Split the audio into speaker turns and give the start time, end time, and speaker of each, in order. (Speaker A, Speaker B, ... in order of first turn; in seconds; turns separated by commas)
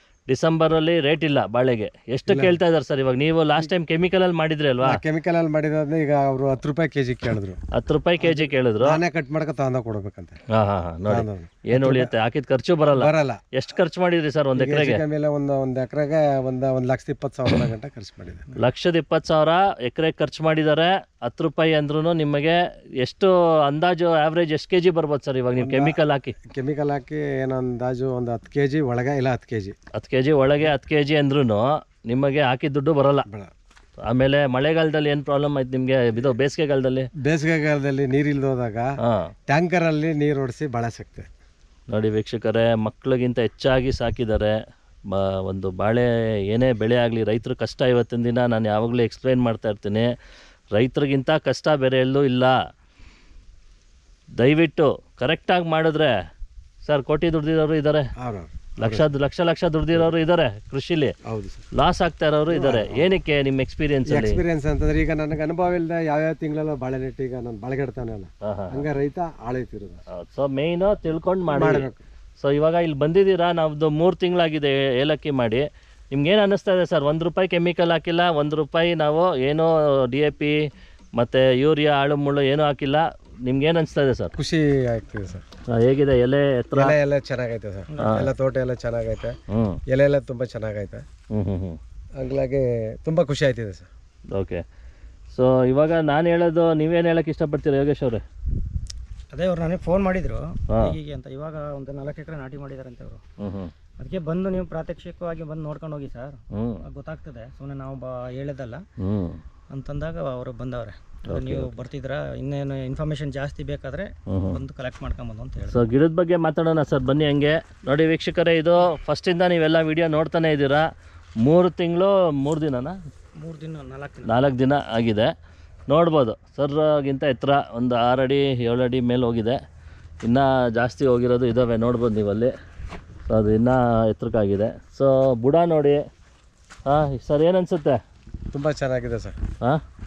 Speaker A: 0.3-5.0, Speaker B: 2.3-2.6, Speaker B: 4.8-7.6, Speaker A: 7.7-9.0, Speaker B: 8.2-10.4, Speaker A: 10.5-15.0, Speaker B: 11.1-12.1, Speaker B: 12.9-13.4, Speaker B: 14.6-18.5, Speaker A: 18.6-26.3, Speaker B: 25.6-29.8, Speaker A: 29.9-33.2, Speaker B: 33.2-33.5, Speaker A: 34.0-37.1, Speaker B: 37.2-38.9, Speaker A: 39.0-39.3, Speaker B: 39.5-41.3, Speaker A: 41.9-44.5, Speaker A: 45.1-50.1, Speaker A: 50.7-52.5, Speaker A: 54.4-56.1, Speaker A: 56.8-58.1, Speaker B: 58.2-59.1, Speaker A: 58.8-61.1, Speaker B: 61.2-61.7, Speaker A: 61.8-64.4, Speaker B: 62.5-63.1, Speaker B: 64.1-70.0, Speaker A: 68.4-68.8, Speaker A: 70.1-71.9, Speaker B: 71.5-72.0, Speaker A: 72.4-80.5, Speaker A: 81.2-84.3, Speaker B: 84.3-85.4, Speaker A: 85.7-87.0, Speaker B: 86.7-89.4, Speaker C: 87.9-88.2, Speaker A: 89.5-89.8, Speaker B: 89.9-91.0, Speaker A: 91.3-91.8, Speaker B: 92.2-93.9, Speaker A: 94.3-94.6, Speaker A: 95.3-98.2, Speaker C: 99.3-103.2, Speaker A: 100.7-101.0, Speaker A: 103.4-103.7, Speaker C: 104.0-108.8, Speaker A: 106.5-106.8, Speaker A: 109.0-109.4, Speaker C: 109.7-115.9, Speaker A: 111.3-111.8, Speaker A: 114.3-114.6, Speaker A: 115.7-120.9, Speaker A: 121.4-123.0, Speaker C: 123.4-124.4, Speaker A: 124.2-125.3, Speaker A: 125.9-129.6, Speaker A: 130.2-132.5, Speaker A: 133.3-136.0, Speaker A: 136.8-138.0, Speaker B: 138.5-139.4